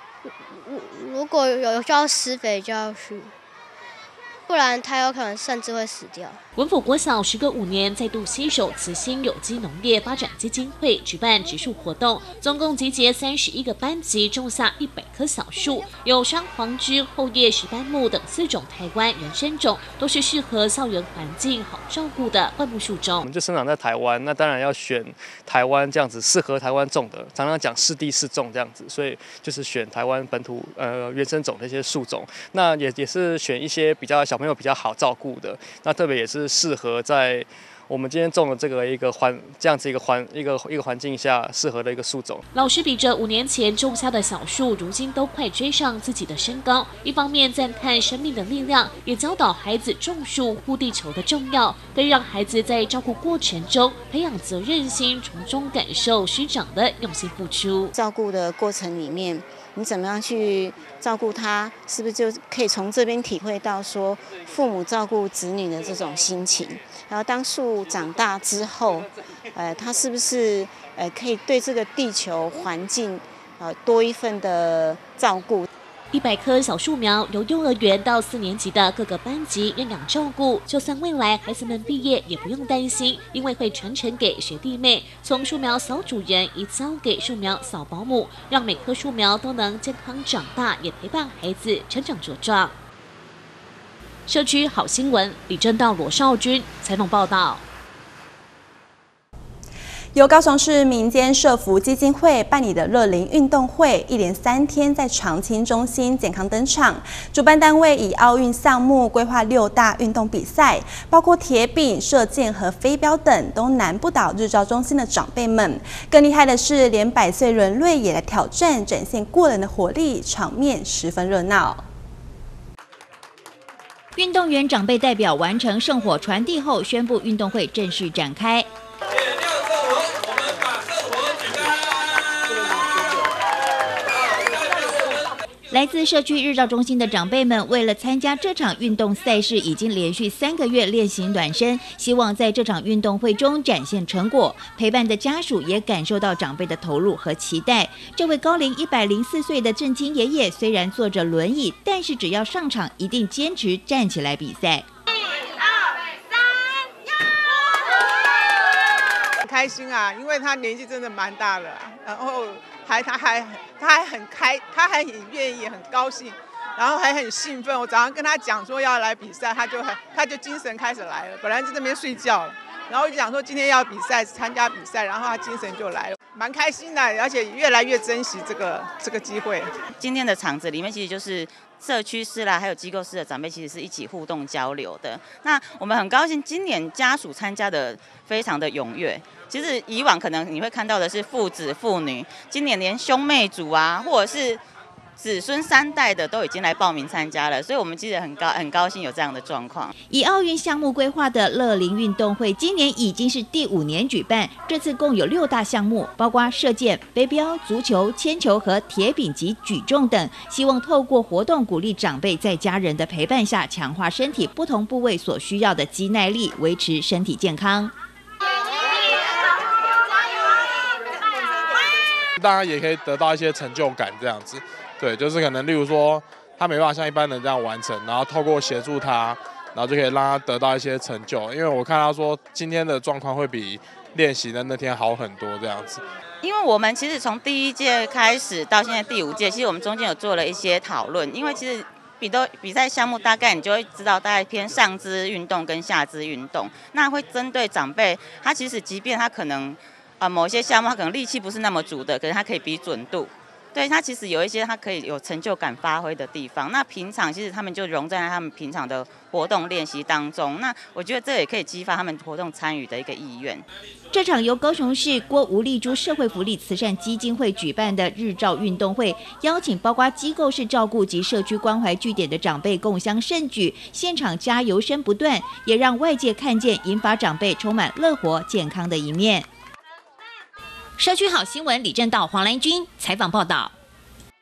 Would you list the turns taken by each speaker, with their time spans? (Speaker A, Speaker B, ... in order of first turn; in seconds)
Speaker A: 0.3-3.3, 4.5-6.4
Speaker B: 6.6-23.3, 42.5-57.9, 76.1-92.8, 94.3-97.6
Speaker C: 23.2-42.5
Speaker D: 57.9-75.7
Speaker E: 100.1-121.8
Speaker F: 124.2-128.7, 135.7-154.9, 200.1-217.9, 264.1-279.5, 281.0-283.7
Speaker G: 159.4-179.7
Speaker H: 180.0-194.6, 195.2-199.9, 236.4-263.7
Speaker I: 222.4-236.0